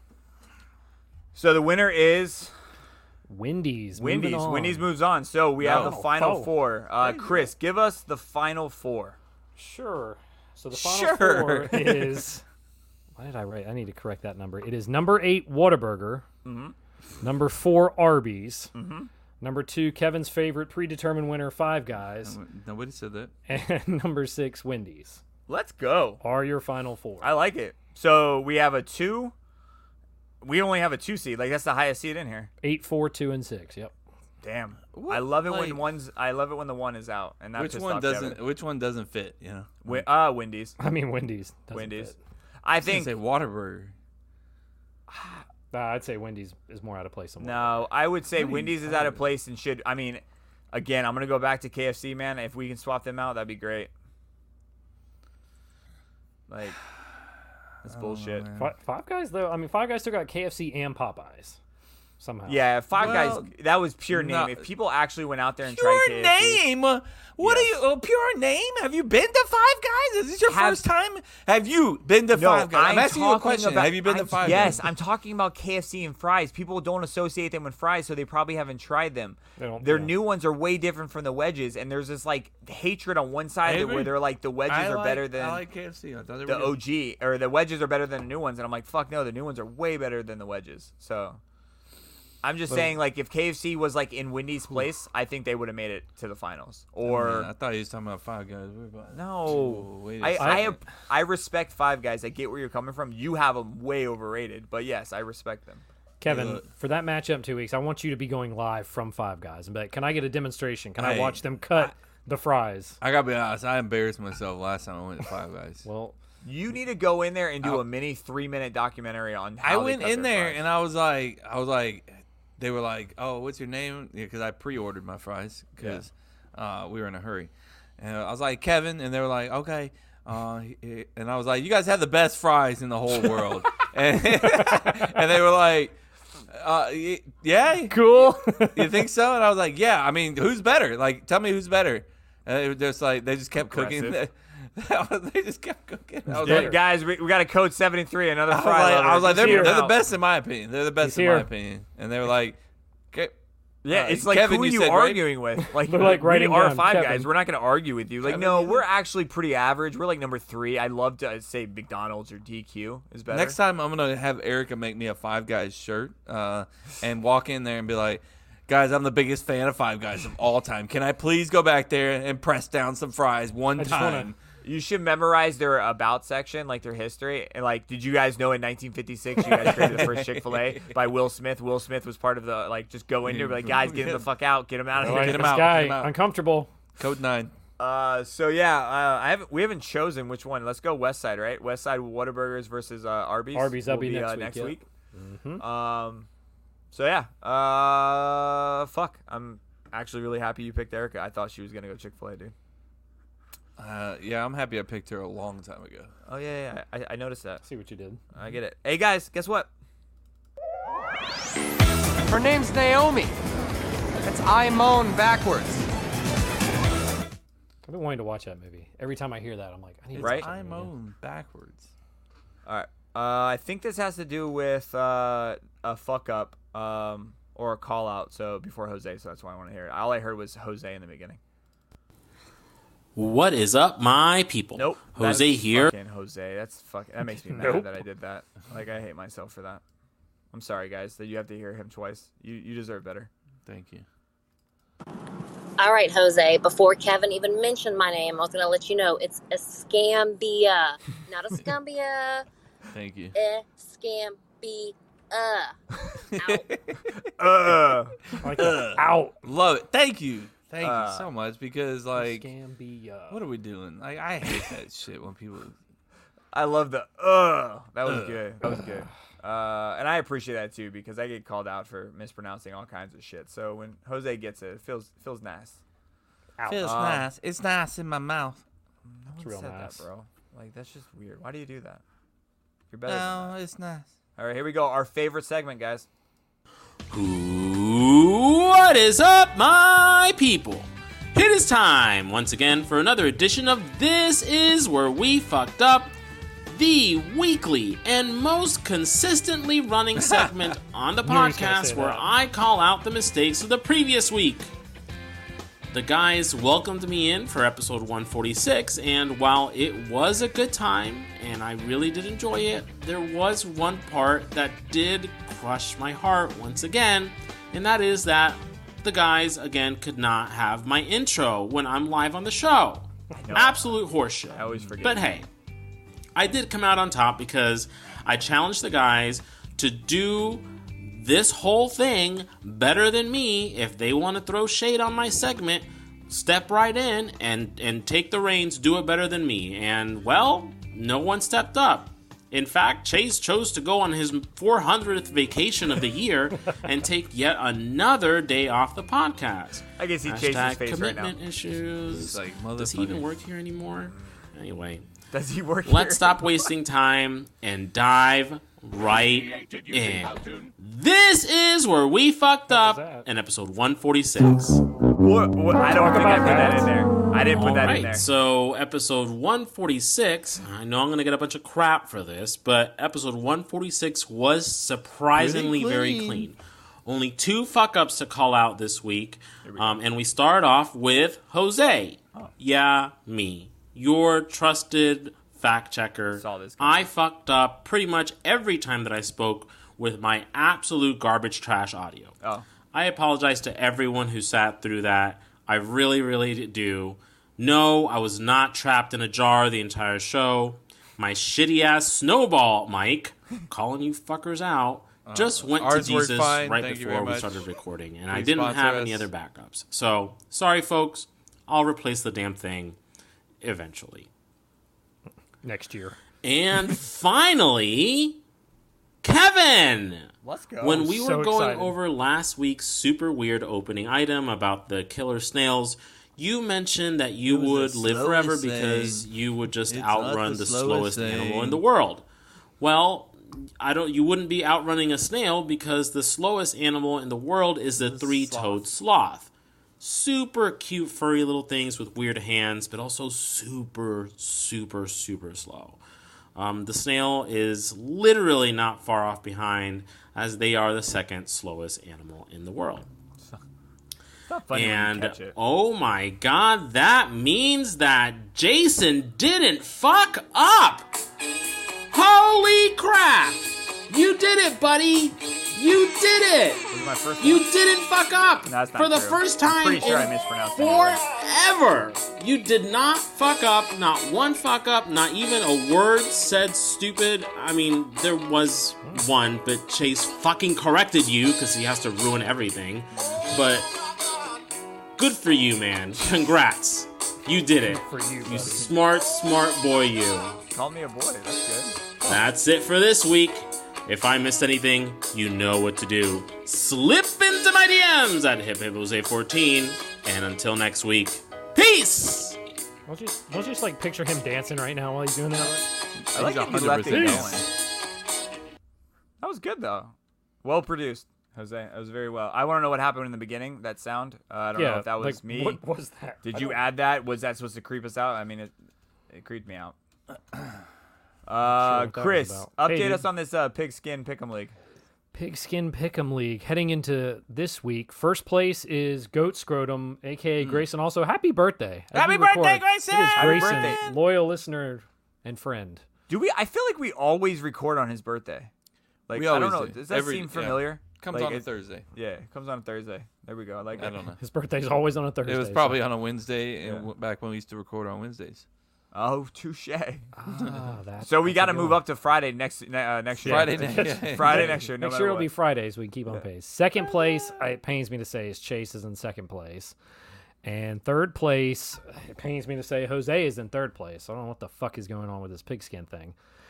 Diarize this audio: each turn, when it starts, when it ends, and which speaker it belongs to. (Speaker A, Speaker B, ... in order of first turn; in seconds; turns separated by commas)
Speaker A: 1.3-2.5, Speaker B: 3.3-4.9, Speaker A: 4.0-9.2, Speaker C: 5.6-6.0, Speaker B: 5.6-6.5, Speaker C: 7.0-7.5, Speaker B: 9.6-12.4, Speaker C: 10.7-12.1, Speaker B: 13.2-16.2, Speaker A: 16.4-16.7, Speaker B: 17.2-18.7, Speaker A: 18.7-19.1, Speaker B: 19.4-22.4, Speaker C: 22.2-23.3, Speaker B: 23.5-25.2, Speaker A: 25.5-26.2, Speaker B: 26.2-27.3, Speaker A: 27.2-29.3, Speaker A: 30.4-32.5, Speaker B: 32.6-33.9, Speaker A: 34.4-38.4, Speaker C: 34.9-35.9, Speaker C: 37.5-40.0, Speaker A: 39.8-40.8, Speaker B: 40.8-42.1, Speaker A: 41.7-43.1, Speaker C: 42.8-43.9, Speaker A: 45.1-45.4, Speaker B: 45.7-47.7, Speaker A: 47.4-53.9, Speaker C: 48.3-49.2, Speaker A: 56.5-56.8, Speaker A: 57.8-58.5, Speaker C: 57.8-58.7, Speaker B: 58.5-61.6, Speaker B: 62.2-62.6, Speaker A: 62.5-66.6, Speaker C: 62.9-63.5, Speaker C: 64.1-64.7, Speaker C: 65.6-74.9, Speaker A: 67.4-67.8, Speaker A: 70.5-70.8, Speaker A: 72.3-85.6, Speaker B: 79.6-80.1, Speaker C: 83.6-86.8, Speaker A: 86.5-91.4, Speaker A: 92.4-97.5, Speaker C: 97.0-100.8, Speaker A: 99.1-105.8, Speaker B: 100.4-100.7, Speaker B: 106.2-113.0, Speaker C: 106.2-106.7, Speaker C: 111.0-111.9, Speaker C: 113.0-115.8, Speaker B: 115.8-116.1, Speaker A: 116.4-120.6, Speaker C: 119.6-136.0, Speaker B: 134.6-134.8, Speaker C: 136.5-146.8, Speaker B: 137.9-138.9, Speaker A: 143.6-144.2, Speaker B: 146.3-146.8, Speaker A: 146.4-150.0, Speaker C: 148.5-152.6, Speaker B: 149.3-149.8, Speaker B: 151.0-151.5, Speaker A: 153.8-163.6, Speaker C: 153.9-155.2, Speaker B: 155.6-157.3, Speaker C: 158.2-158.8, Speaker C: 163.3-174.4, Speaker B: 173.8-174.3, Speaker A: 174.6-185.5, Speaker C: 179.4-181.0, Speaker C: 183.2-184.3, Speaker C: 184.9-186.1, Speaker B: 185.0-186.7, Speaker C: 187.0-187.5, Speaker A: 187.8-194.8, Speaker B: 193.5-195.6, Speaker A: 195.6-196.3, Speaker A: 196.9-202.5, Speaker C: 203.8-206.1, Speaker A: 206.2-207.6, Speaker B: 207.6-208.2, Speaker A: 208.3-209.7, Speaker D: 212.2-213.4, Speaker D: 214.2-215.8, Speaker B: 217.8-220.9, Speaker C: 220.1-221.9, Speaker A: 220.2-220.4, Speaker A: 222.7-231.4, Speaker E: 233.1-235.9, Speaker A: 234.8-239.8, Speaker B: 237.6-237.8, Speaker A: 240.5-243.3, Speaker C: 243.7-244.1, Speaker F: 245.8-252.4, Speaker C: 252.9-253.3, Speaker F: 253.3-255.8, Speaker C: 256.2-257.9, Speaker F: 256.4-256.6, Speaker A: 257.4-258.2, Speaker B: 258.4-259.4, Speaker C: 258.5-262.5, Speaker A: 260.8-261.3, Speaker B: 262.1-263.4, Speaker C: 263.3-265.8, Speaker A: 266.5-275.8, Speaker C: 268.1-268.4, Speaker B: 276.6-276.9, Speaker C: 276.6-278.6, Speaker A: 276.8-277.2, Speaker A: 279.0-282.0, Speaker B: 279.4-280.0, Speaker A: 282.9-283.5, Speaker C: 283.1-284.1, Speaker A: 284.4-286.1, Speaker E: 287.1-296.1, Speaker E: 296.7-304.7, Speaker C: 300.1-300.7, Speaker B: 301.2-302.3, Speaker E: 305.9-325.5, Speaker A: 323.4-325.4, Speaker E: 326.3-355.1, Speaker A: 350.0-351.4, Speaker C: 352.1-353.3, Speaker A: 355.3-356.7, Speaker E: 355.9-364.8, Speaker B: 362.7-363.2, Speaker A: 365.1-368.2, Speaker B: 365.9-366.9, Speaker E: 367.5-392.4, Speaker C: 375.4-376.5, Speaker A: 379.6-380.0, Speaker A: 386.3-387.1, Speaker E: 392.9-413.0, Speaker C: 405.2-407.7, Speaker C: 408.3-409.3, Speaker E: 413.6-414.3, Speaker B: 415.6-416.2, Speaker E: 416.4-418.4, Speaker E: 419.2-432.2, Speaker A: 420.4-421.1, Speaker B: 421.1-421.9, Speaker C: 427.4-429.3, Speaker C: 429.9-431.8, Speaker E: 432.8-446.0, Speaker C: 437.9-438.9, Speaker E: 446.5-453.1, Speaker A: 454.5-455.5, Speaker E: 454.7-461.1, Speaker E: 462.1-466.9, Speaker A: 466.9-467.7, Speaker E: 467.4-483.9, Speaker A: 468.6-471.2, Speaker E: 485.2-490.6, Speaker B: 487.8-488.9, Speaker A: 490.7-492.0, Speaker E: 492.2-502.6, Speaker B: 503.1-505.9, Speaker C: 506.3-507.6, Speaker A: 506.3-507.6, Speaker B: 507.1-507.6, Speaker A: 509.4-515.8, Speaker B: 514.7-516.8, Speaker A: 516.4-518.7, Speaker A: 519.3-519.9, Speaker C: 520.5-520.8, Speaker A: 521.5-524.7, Speaker B: 521.6-523.3, Speaker B: 525.3-536.0, Speaker C: 532.1-534.2, Speaker A: 533.3-534.0, Speaker A: 536.3-538.7, Speaker A: 539.3-544.2, Speaker C: 539.3-542.1, Speaker C: 544.0-544.4, Speaker B: 544.4-546.0, Speaker C: 545.4-548.6, Speaker A: 549.1-550.3, Speaker B: 550.4-552.0, Speaker A: 551.2-555.5, Speaker C: 553.4-554.8, Speaker B: 553.4-560.0, Speaker B: 560.6-566.4